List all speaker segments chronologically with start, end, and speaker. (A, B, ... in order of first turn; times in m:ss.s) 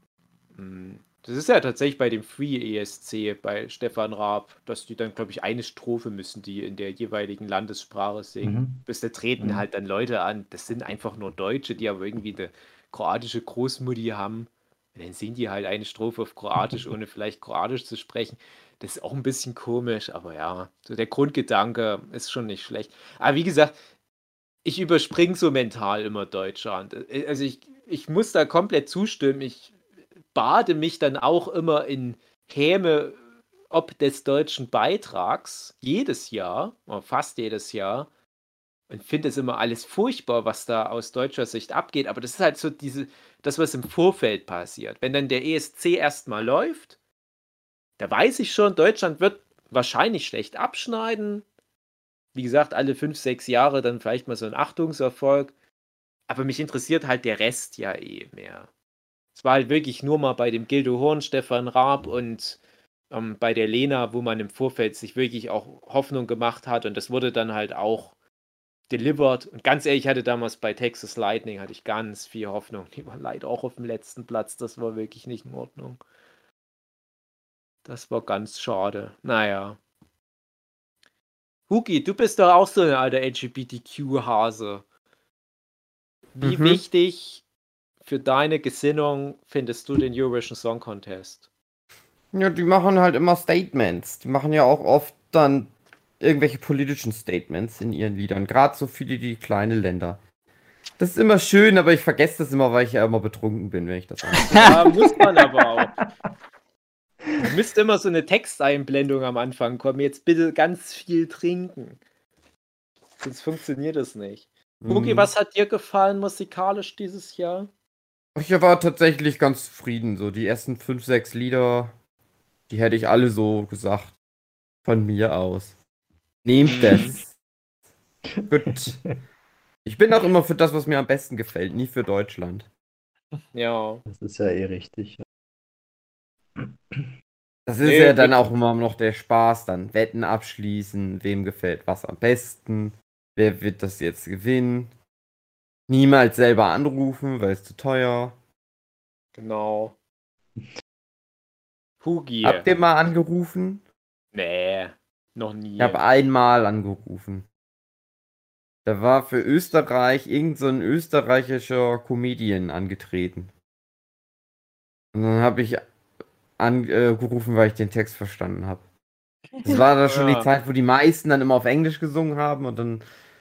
0:00.5-0:23.7 A
0:08.4-0:08.8 B
0:09.4-0:09.6 B
0:24.6-0:29.7 A
0:30.3-0:33.2 A
0:33.7-0:38.1 A
0:38.9-0:47.0 A
0:48.0-0:51.4 A
0:52.3-0:55.5 A
0:56.3-0:58.7 A
0:59.3-1:02.6 A
1:03.1-1:08.1 A
1:08.9-1:16.0 A
1:17.8-1:19.8 A
1:21.7-1:24.8 A
1:26.4-1:27.4 A
1:26.4-1:26.8 C
1:28.0-1:31.4 A
1:32.3-1:40.2 C
1:41.0-1:44.9 C
1:44.6-1:46.0 A
1:47.4-1:52.0 A
1:53.2-1:57.7 A
1:54.8-1:55.3 C
1:58.3-2:01.9 C
2:02.7-2:04.1 C
2:04.8-2:05.7 C
2:06.4-2:07.3 C
2:06.6-2:07.2 A
2:08.5-2:09.0 C
2:08.5-2:09.0 B
2:09.8-2:12.7 C
2:13.5-2:14.0 A
2:14.0-2:15.2 B
2:16.6-2:17.1 B
2:17.6-2:24.9 C
2:17.8-2:18.3 A
2:25.9-2:28.4 C
2:29.4-2:30.0 A
2:32.0-2:32.6 A
2:32.4-2:33.8 C
2:34.3-2:36.0 A
2:35.8-2:37.5 C
2:38.8-2:43.5 C
2:45.1-2:45.9 C
2:46.6-2:48.8 C
2:49.6-2:53.0 C
2:49.7-2:50.5 A